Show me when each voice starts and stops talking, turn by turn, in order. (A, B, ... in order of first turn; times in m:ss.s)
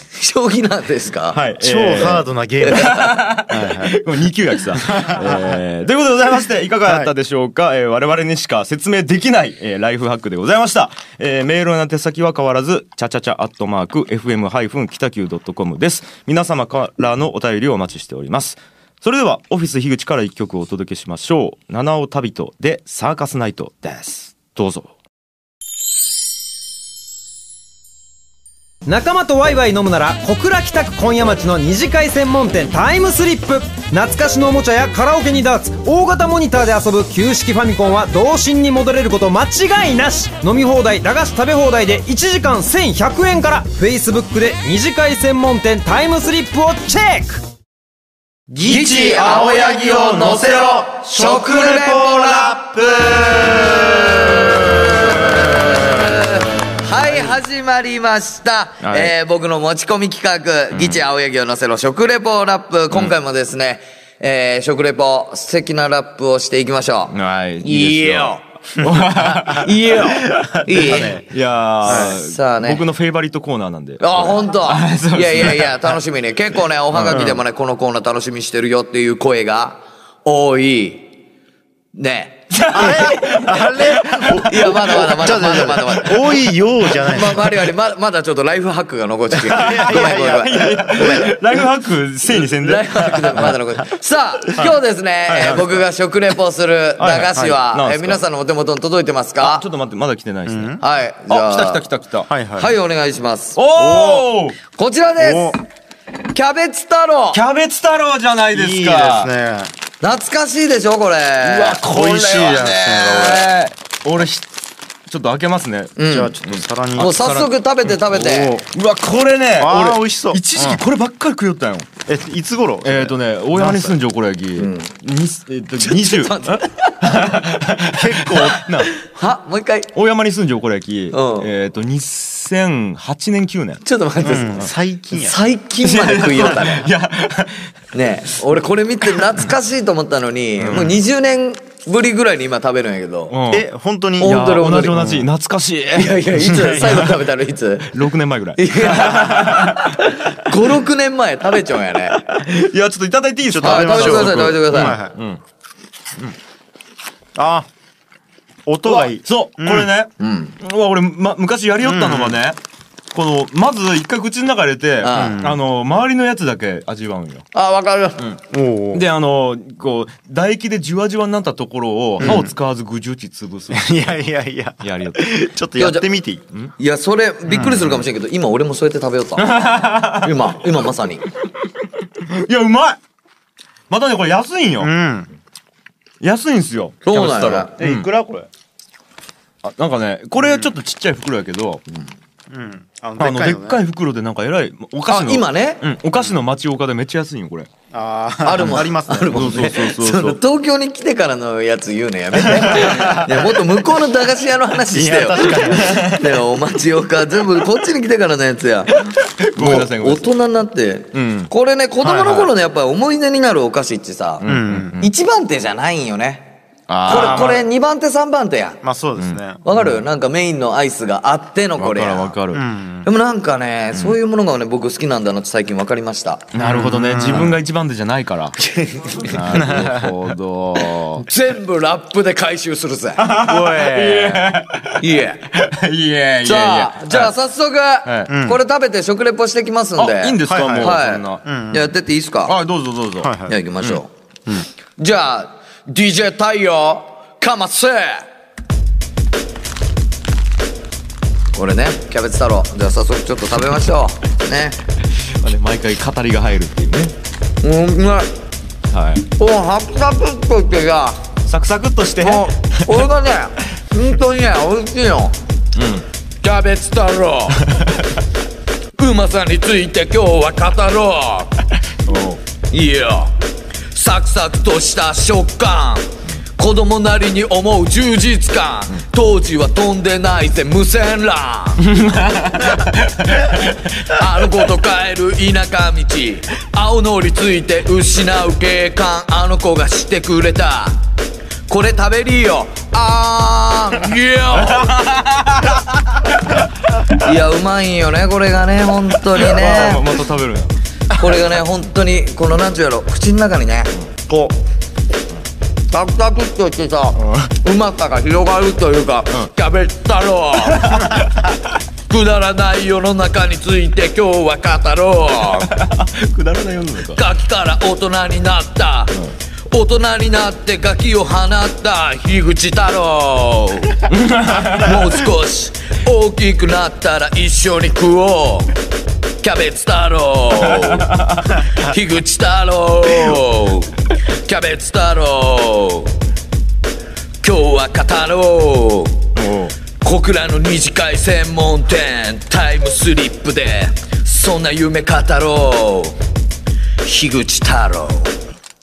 0:00.1-0:01.4 A
0:01.3-0:24.9 B
0:01.6-0:04.0 C
0:04.8-0:05.6 C
0:06.8-0:07.1 C
0:28.8-0:47.4 D
0:48.5-0:54.5 C
0:48.6-0:50.4 A
0:51.0-1:08.4 A
0:58.8-0:59.1 B
1:00.7-1:01.0 B
1:07.1-1:09.7 B
1:09.5-1:11.2 A
1:10.3-1:11.2 C
1:10.7-1:16.0 B
1:11.8-1:12.1 C
1:11.8-1:12.8 A
1:14.0-1:21.1 A
1:16.9-1:17.3 B
1:17.1-1:17.4 C
1:21.9-1:23.2 A
1:22.5-1:26.1 B
1:22.7-1:27.5 C
1:24.4-1:26.4 A
1:27.0-1:31.3 A
1:29.4-1:31.1 C
1:29.5-1:33.5 B
1:32.4-1:39.6 A
1:35.3-1:35.8 B
1:37.0-1:38.2 B
1:37.3-1:37.6 C
1:39.4-1:42.3 B
1:40.5-1:40.8 C
1:40.8-1:41.8 A
1:42.3-1:42.8 C
1:42.6-1:45.6 A
1:43.5-1:44.6 B
1:45.2-1:45.6 C
1:46.3-1:47.4 A
1:47.3-1:49.3 B
1:48.5-1:49.7 C
1:50.0-1:51.8 A
1:51.4-1:54.5 B
1:51.8-1:53.5 C
1:55.1-1:57.4 B
1:56.0-1:56.3 A
1:56.1-1:58.7 C
1:56.9-1:58.6 A
1:58.7-2:01.9 B
1:59.6-2:00.8 C
2:02.0-2:04.0 C
2:02.8-2:09.0 B
2:04.6-2:04.9 A
2:05.8-2:07.3 A
2:07.9-2:08.7 C
2:09.0-2:09.9 A
2:09.9-2:13.8 B
2:11.1-2:11.5 A
2:13.8-2:16.9 A
2:14.2-2:15.4 C
2:15.8-2:17.7 B
2:17.9-2:23.3 A
2:20.6-2:21.0 B
2:23.3-2:23.7 B
2:23.5-2:25.3 C
2:24.2-2:25.0 A
2:24.2-2:27.2 B
2:25.9-2:28.0 A
2:26.4-2:27.0 C
2:27.9-2:30.0 B
2:28.6-2:32.2 A
2:32.2-2:35.4 B
2:33.5-2:35.1 C
2:33.6-2:35.0 A
2:37.4-2:37.7 C
2:38.6-2:39.9 C
2:38.8-2:42.6 B
2:40.2-2:40.5 A
2:41.8-2:42.4 C
2:43.1-2:47.5 B
2:45.0-2:45.4 A
2:45.1-2:45.6 C
2:47.5-2:48.3 A
2:48.5-2:49.0 C
2:48.9-2:54.2 B
2:52.2-2:52.5 C
2:53.7-2:56.4 C
2:54.8-2:55.3 B
2:55.8-2:56.0 A
2:56.8-3:01.2 A
2:57.5-2:58.0 C
2:59.4-3:00.6 B
3:02.2-3:03.0 B
3:03.9-3:04.9 B
3:04.8-3:05.3 C
3:06.2-3:08.1 B
3:07.0-3:07.7 A
3:07.8-3:08.5 C
3:09.6-3:11.8 B
3:10.4-3:10.7 C
3:12.5-3:13.8 C
3:13.2-3:17.7 B
3:15.1-3:15.8 A
3:17.9-3:19.8 C
3:18.4-3:34.4 A
3:19.3-3:20.4 B
3:22.4-3:23.6 C
3:24.9-3:26.1 C
3:25.7-3:26.2 B
3:29.4-3:30.3 B
3:31.1-3:31.5 B
3:32.0-3:32.5 C
3:34.4-3:35.1 B
3:34.4-3:35.0 C
3:35.0-3:36.5 A
3:36.9-3:37.6 B
3:37.0-3:38.8 A
3:37.1-3:37.6 C
3:38.8-3:40.0 C
3:39.6-3:42.3 A
3:41.8-3:42.6 B
3:42.5-3:43.1 C
3:43.0-3:46.5 A
3:46.5-3:48.6 B
3:46.6-3:47.6 C
3:48.6-3:49.4 A
3:49.2-3:51.2 B
3:49.5-3:50.2 C
3:51.1-3:53.3 A
3:53.2-3:57.3 B
3:53.4-3:54.5 C
3:55.0-3:55.4 A
3:56.4-4:02.5 A
3:58.0-3:58.3 B
3:58.3-3:58.6 C
4:00.0-4:01.4 B
4:00.5-4:01.9 C
4:02.4-4:04.0 B
4:03.2-4:03.5 C
4:03.5-4:04.1 A
4:05.0-4:08.2 A
4:11.5-4:14.8 A
4:15.1-4:17.1 B
4:17.6-4:18.3 A
4:18.9-4:19.3 B
4:19.4-4:21.2 A
4:21.4-4:23.0 B
4:22.2-4:25.3 A
4:25.7-4:26.0 B
4:26.4-4:27.6 A
4:27.7-4:28.1 B
4:29.0-4:31.5 A
4:32.1-4:32.4 B
4:32.7-4:33.3 A
4:33.9-4:41.8 A
4:41.9-4:43.7 B
4:44.0-4:51.0 A
4:51.7-4:54.9 A
4:54.5-4:55.9 B
4:57.1-5:00.2 A
4:59.3-5:00.7 B
5:01.2-5:04.6 A
5:05.9-5:11.0 A
5:07.2-5:07.5 B
5:10.7-5:11.2 B
5:12.1-5:15.7 A
5:15.8-5:17.2 B
5:17.1-5:19.1 A
5:19.7-5:24.0 A
5:24.1-5:25.0 B
5:24.6-5:28.7 A
5:29.4-5:31.2 A
5:31.1-5:31.4 B
5:31.7-5:33.9 A
5:34.4-5:36.1 A
5:37.4-5:39.2 A
5:39.3-5:39.7 B
5:40.0-5:46.2 A
5:47.0-5:48.4 A